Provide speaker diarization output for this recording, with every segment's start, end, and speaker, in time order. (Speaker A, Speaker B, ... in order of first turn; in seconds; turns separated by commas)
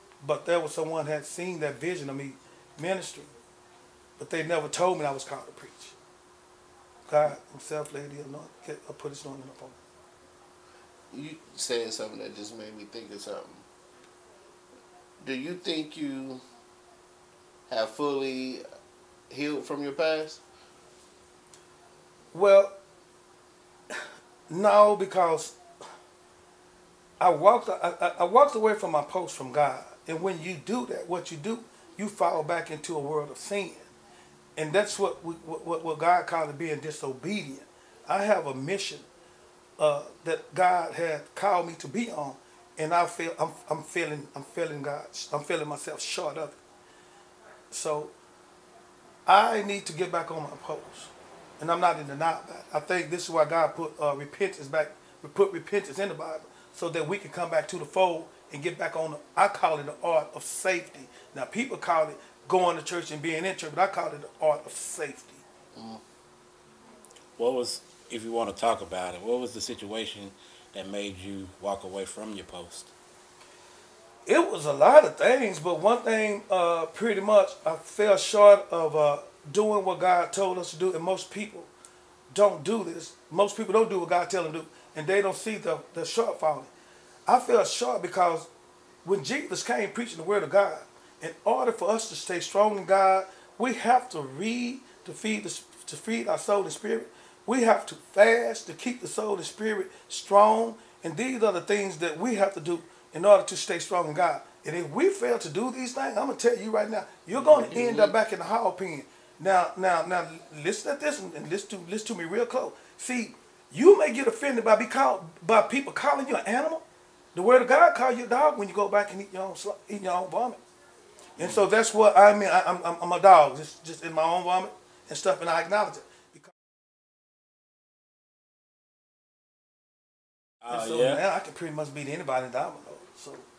Speaker A: 0.2-3.3, Speaker A: 4.2-6.0, Speaker A: 7.1-9.8, Speaker B: 11.1-13.7, Speaker B: 15.2-16.4, Speaker B: 17.7-18.6, Speaker B: 19.3-20.4, Speaker A: 22.3-22.7, Speaker A: 23.9-25.6, Speaker A: 27.2-33.9, Speaker A: 34.6-39.0, Speaker A: 39.8-46.6, Speaker A: 47.7-48.1, Speaker A: 49.3-65.4, Speaker B: 65.7-66.0, Speaker C: 67.4-72.9, Speaker A: 74.2-81.7, Speaker A: 82.3-86.7, Speaker A: 87.3-88.5, Speaker A: 89.0-116.8, Speaker B: 107.3-108.1, Speaker A: 117.3-120.6, Speaker A: 121.4-126.5, Speaker C: 130.6-131.2, Speaker A: 130.7-133.4